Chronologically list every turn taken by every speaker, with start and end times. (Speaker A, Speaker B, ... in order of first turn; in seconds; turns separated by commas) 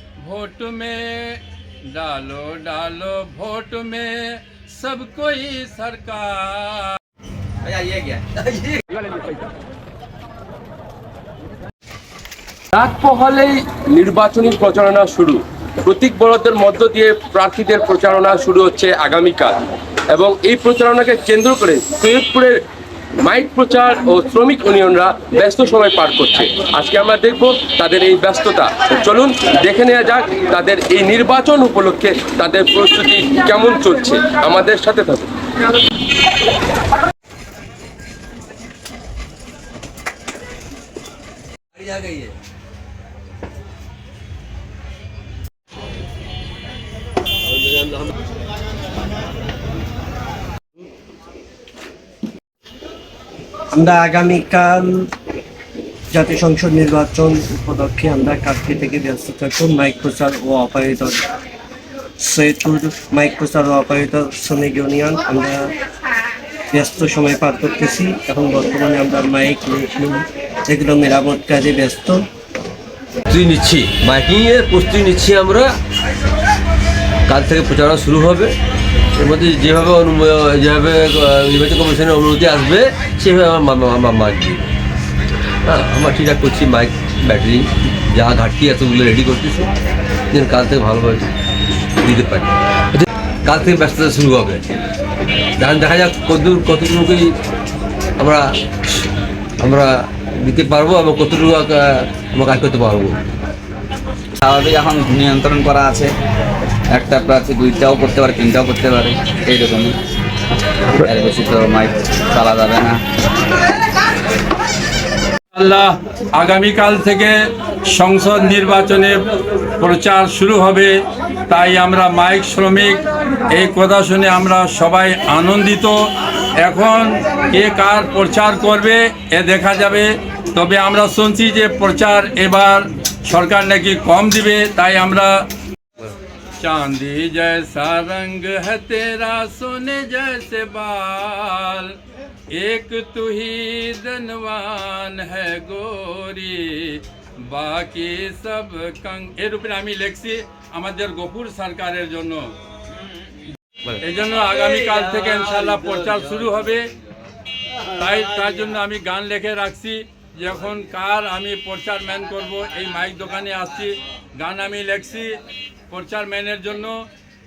Speaker A: 0.2-7.0, Speaker B: 7.7-8.2, Speaker C: 12.7-22.6, Speaker C: 23.2-35.3, Speaker D: 41.7-42.4, Speaker D: 47.5-48.1, Speaker E: 53.7-55.1, Speaker E: 56.1-61.2, Speaker E: 62.2-65.7, Speaker E: 66.7-72.2, Speaker D: 73.3-75.7, Speaker D: 77.3-78.5, Speaker D: 79.2-84.7, Speaker D: 85.7-89.7, Speaker D: 90.3-91.3, Speaker D: 92.0-94.7, Speaker D: 95.6-97.3, Speaker D: 98.2-99.1, Speaker D: 99.6-103.3, Speaker B: 104.4-106.1, Speaker B: 106.9-110.0, Speaker B: 111.0-113.0, Speaker A: 115.5-135.4, Speaker A: 136.6-141.9, Speaker A: 142.5-152.5, Speaker A: 154.0-156.9, Speaker A: 157.9-167.0